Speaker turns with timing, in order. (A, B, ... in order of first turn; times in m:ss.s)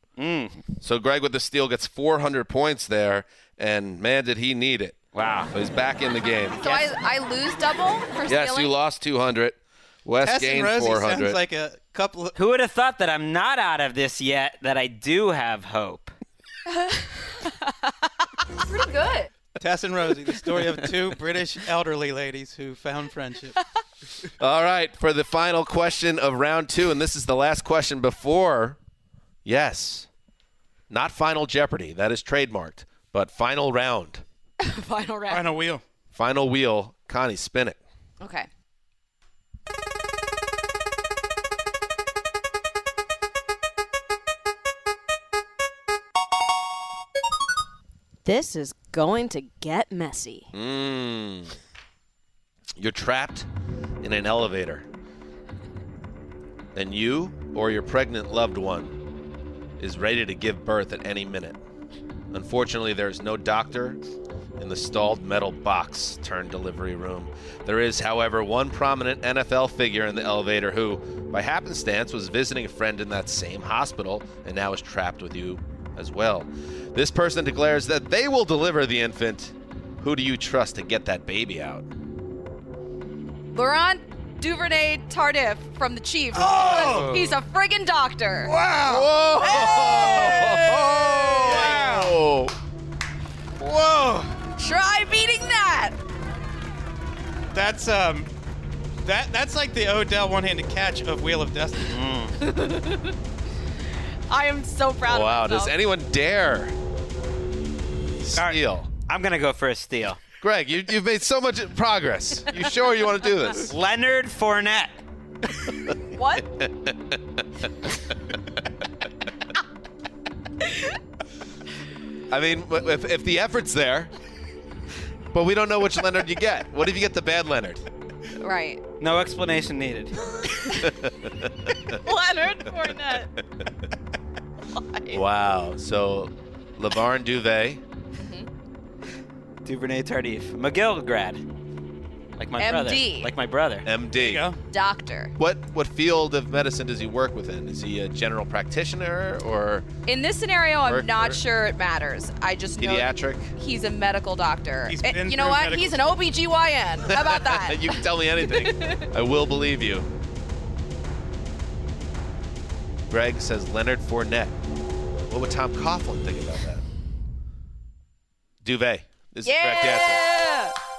0:00.2-0:00.6 A
0:00.8-0:06.9 B
0:05.1-0:05.5 A
0:06.6-0:08.7 C
0:08.3-0:11.4 B
0:10.2-0:12.4 D
0:12.4-0:16.1 A
0:16.7-0:17.7 C
0:18.7-0:19.3 C
0:19.6-0:23.6 D
0:24.4-0:28.8 B
0:29.4-0:30.1 B
0:30.9-0:34.2 B
0:34.6-0:35.5 C
0:35.3-0:35.8 D
0:36.1-0:37.8 B
0:38.2-0:38.5 C
0:48.2-0:50.5 E
0:50.5-0:51.6 B
0:52.8-0:53.5 B
0:54.0-0:54.9 B
0:56.8-0:59.0 B
0:59.8-1:01.6 B
1:02.3-1:04.0 B
1:04.6-1:21.8 B
1:23.5-1:28.5 C
1:26.3-1:27.2 D
1:28.4-1:32.2 D
1:28.8-1:32.5 B
1:29.4-1:30.6 C
1:33.6-1:34.4 D
1:34.6-1:36.0 C
1:37.5-1:38.3 D
1:39.0-1:42.0 D
1:41.9-1:42.4 A
1:42.4-1:43.1 C
1:44.3-1:45.8 C
1:45.0-1:46.8 B
1:48.2-1:48.9 B
1:48.4-1:50.2 A
1:50.4-1:53.7 B
1:53.7-1:55.0 A
1:56.1-1:56.4 C
1:56.6-1:57.2 B
2:02.3-2:04.1 B
2:05.3-2:07.8 B
2:08.4-2:08.8 C
2:09.0-2:10.1 A
2:10.8-2:11.1 B
2:12.0-2:13.3 C
2:14.7-2:15.2 C
2:15.1-2:17.8 B
2:18.2-2:18.5 C
2:19.6-2:21.4 A
2:22.4-2:23.9 A
2:22.6-2:23.3 C
2:23.8-2:24.5 B
2:24.2-2:24.6 D
2:24.7-2:25.3 C
2:25.4-2:29.9 B
2:30.1-2:39.1 C
2:30.8-2:31.4 B
2:32.8-2:33.5 B
2:34.9-2:36.1 D
2:37.1-2:40.1 B
2:43.1-2:44.6 B
2:45.3-2:46.8 B
2:48.6-2:50.4 B
2:49.4-2:50.8 C